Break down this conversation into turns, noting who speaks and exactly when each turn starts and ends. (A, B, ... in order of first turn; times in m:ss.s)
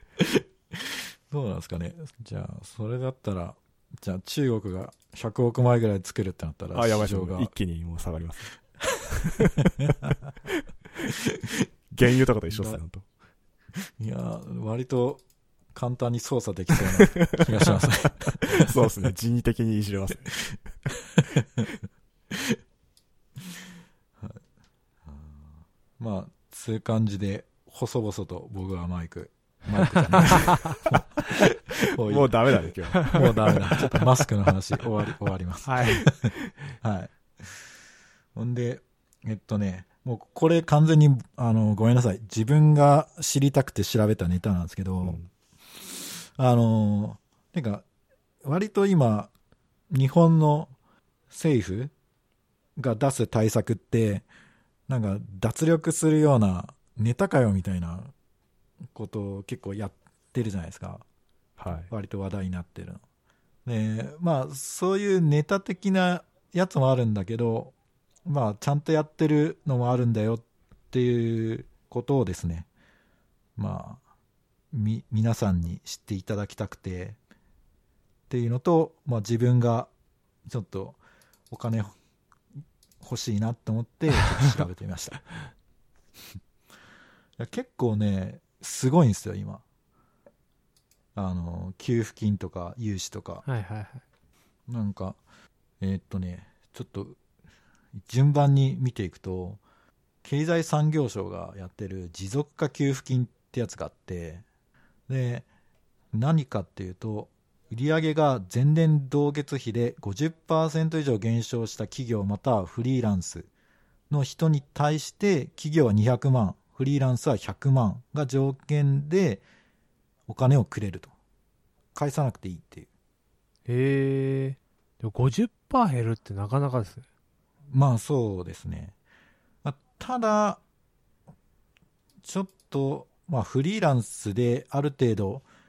0:00.2-0:07.5 A
0:06.7-0:08.5 B
0:09.2-0:09.7 B
0:09.8-0:10.1 A
0:11.9-0:13.0 B
0:12.5-0:12.8 A
0:14.0-0:15.2 A
0:15.7-0:19.1 A
0:17.0-0:17.5 B
0:18.5-0:20.4 B
0:21.1-0:21.7 A
0:22.3-0:22.6 A
0:25.0-0:37.6 A
0:32.0-0:34.1 B
0:35.6-0:36.1 C
0:38.3-0:45.2 A
0:45.8-0:47.8 A
0:48.4-0:49.3 A
0:49.9-0:50.7 A
0:51.3-0:51.9 A
0:52.8-0:54.2 A
0:54.9-0:58.1 A
0:58.9-1:01.0 A
1:01.6-1:01.9 B
1:01.9-1:03.0 A
1:03.6-1:07.7 A
1:08.2-1:12.7 A
1:13.6-1:14.0 A
1:14.7-1:17.2 A
1:18.3-1:19.9 A
1:20.4-1:21.0 A
1:21.5-1:21.9 A
1:23.0-1:25.2 A
1:27.4-1:29.6 A
1:31.1-1:33.4 A
1:33.4-1:34.0 C
1:34.7-1:35.2 A
1:35.8-1:37.2 A
1:38.0-1:39.6 A
1:40.2-1:44.4 A
1:45.1-1:45.4 A
1:46.1-1:53.5 A
1:54.1-1:59.4 A
2:00.3-2:01.1 A
2:01.9-2:02.9 A
2:03.6-2:07.0 C
2:07.7-2:08.9 A
2:09.6-2:10.6 A
2:12.2-2:15.4 A